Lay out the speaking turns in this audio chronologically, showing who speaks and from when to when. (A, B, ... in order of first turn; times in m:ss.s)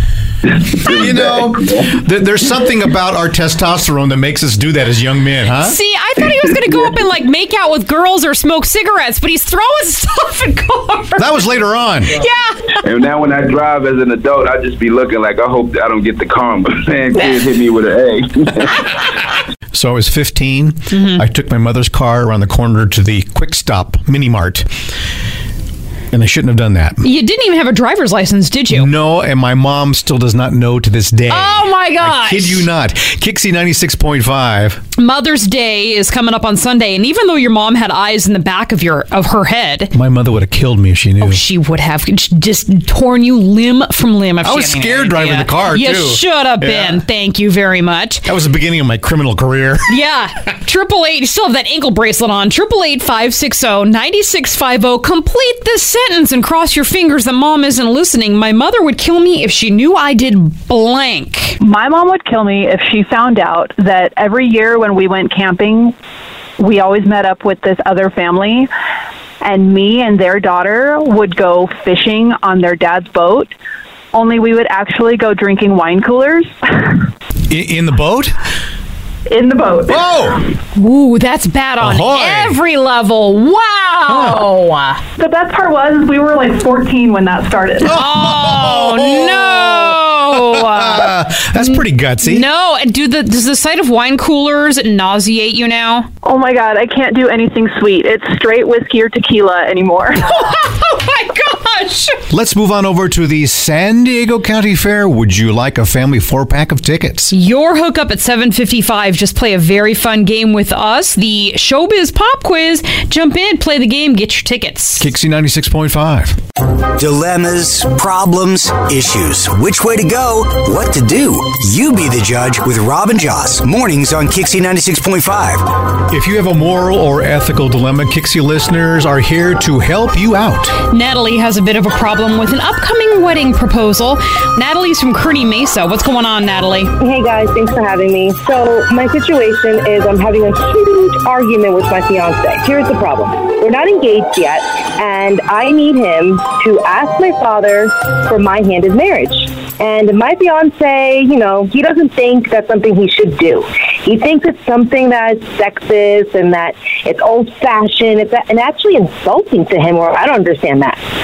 0:00.5-0:01.9 A
0:00.8-0:05.8 B
0:05.6-0:11.2 C
0:11.2-0:12.1 B
0:12.2-0:12.8 C
0:12.8-0:19.0 A
0:19.7-0:24.7 B
0:20.9-0:21.2 C
0:26.1-0:27.0 B
0:27.0-0:28.9 C
0:28.7-0:34.8 B
0:31.3-0:32.7 C
0:35.0-0:39.9 C
0:39.9-0:41.4 B
0:41.2-0:48.2 C
0:44.4-0:47.0 B
0:48.2-0:49.9 B
0:49.9-1:01.6 C
1:01.6-1:05.9 D
1:06.6-1:08.7 D
1:09.4-1:13.5 D
1:14.1-1:16.5 D
1:17.5-1:18.4 B
1:19.3-1:20.0 D
1:19.9-1:20.4 B
1:20.7-1:25.0 C
1:21.8-1:22.6 B
1:24.1-1:24.5 B
1:25.2-1:27.9 D
1:27.9-1:32.5 B
1:27.9-1:36.1 C
1:36.2-1:40.2 D
1:40.2-1:42.2 C
1:42.3-1:47.3 B
1:47.3-1:55.0 C
1:55.0-1:56.4 B
1:57.0-2:05.7 E
2:06.1-2:10.7 B
2:10.9-2:16.9 C
2:17.0-2:41.0 F